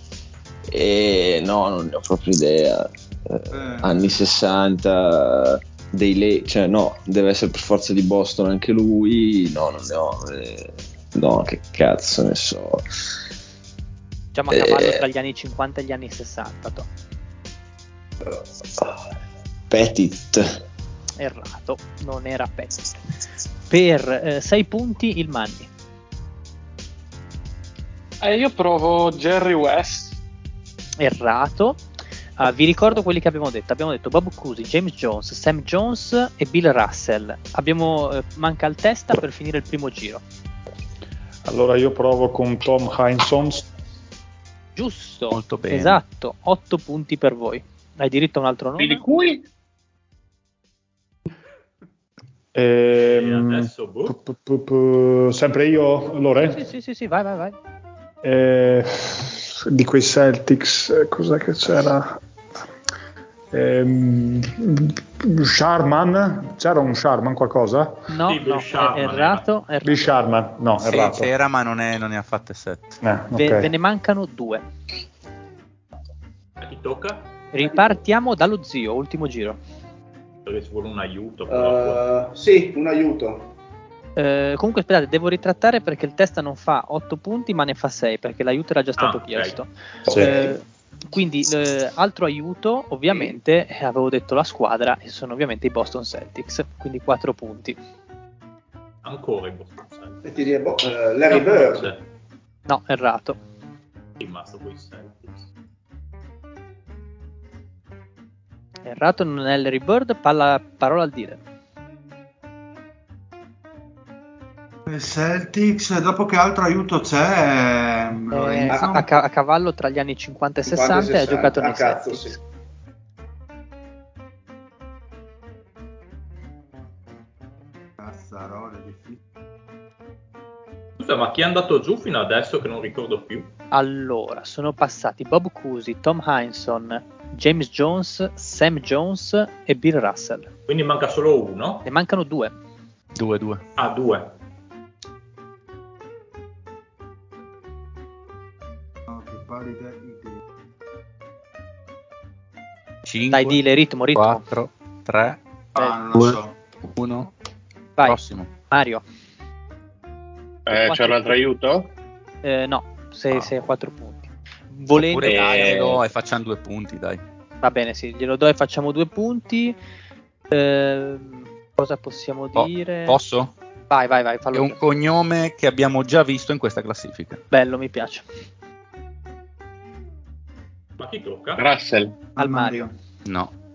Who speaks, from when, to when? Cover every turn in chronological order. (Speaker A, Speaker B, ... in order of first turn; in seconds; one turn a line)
Speaker A: 0.7-12.8
Speaker B: 3.5-4.2
Speaker C: 14.3-16.9
Speaker A: 14.5-15.0
Speaker A: 19.7-20.6
Speaker C: 21.2-22.9
Speaker C: 23.7-25.7
Speaker D: 28.2-30.1
Speaker C: 31.0-31.8
Speaker C: 32.4-40.2
Speaker E: 41.5-43.7
Speaker C: 44.8-49.0
Speaker F: 45.3-46.0
Speaker G: 48.8-49.4
Speaker E: 52.5-56.6
Speaker H: 53.0-54.2
Speaker C: 56.4-57.6
Speaker E: 58.2-62.2
Speaker E: 63.5-68.0
Speaker C: 68.1-70.2
Speaker H: 68.3-69.5
Speaker E: 69.8-71.3
Speaker F: 70.8-73.0
Speaker E: 73.0-73.7
Speaker C: 73.3-74.6
Speaker H: 76.6-77.3
Speaker C: 77.5-79.6
Speaker H: 80.5-82.0
Speaker I: 81.5-83.5
Speaker C: 84.2-97.8
Speaker H: 89.0-89.6
Speaker E: 90.1-90.5
Speaker H: 99.0-100.2
Speaker I: 100.3-102.0
Speaker H: 101.3-102.0
Speaker C: 102.7-103.4
Speaker H: 104.2-105.5
Speaker C: 108.8-111.4
Speaker B: 114.9-119.1
Speaker C: 118.3-122.4
Speaker I: 118.7-119.0
Speaker I: 120.7-122.4
Speaker B: 128.0-129.2
Speaker H: 131.0-133.5
Speaker C: 133.7-140.5
Speaker H: 140.7-141.8
Speaker C: 141.9-142.5
Speaker F: 143.2-143.6
Speaker H: 143.8-144.3
Speaker B: 149.1-150.4
Speaker F: 153.1-155.4
Speaker C: 153.3-154.4
Speaker B: 155.8-156.6
Speaker F: 157.0-157.3
Speaker F: 158.0-158.5
Speaker C: 158.7-159.0
Speaker G: 160.7-161.9
Speaker C: 160.7-161.4
Speaker C: 162.4-165.9
Speaker F: 164.9-167.2
Speaker G: 165.2-166.0
Speaker C: 167.6-169.8
Speaker C: 170.5-173.2
Speaker F: 172.6-173.5
Speaker C: 173.9-174.8
Speaker F: 174.5-177.4
Speaker C: 177.5-178.3
Speaker H: 181.0-181.6
Speaker G: 181.6-182.2
Speaker B: 182.3-182.9
Speaker C: 182.4-182.9
Speaker F: 183.3-183.5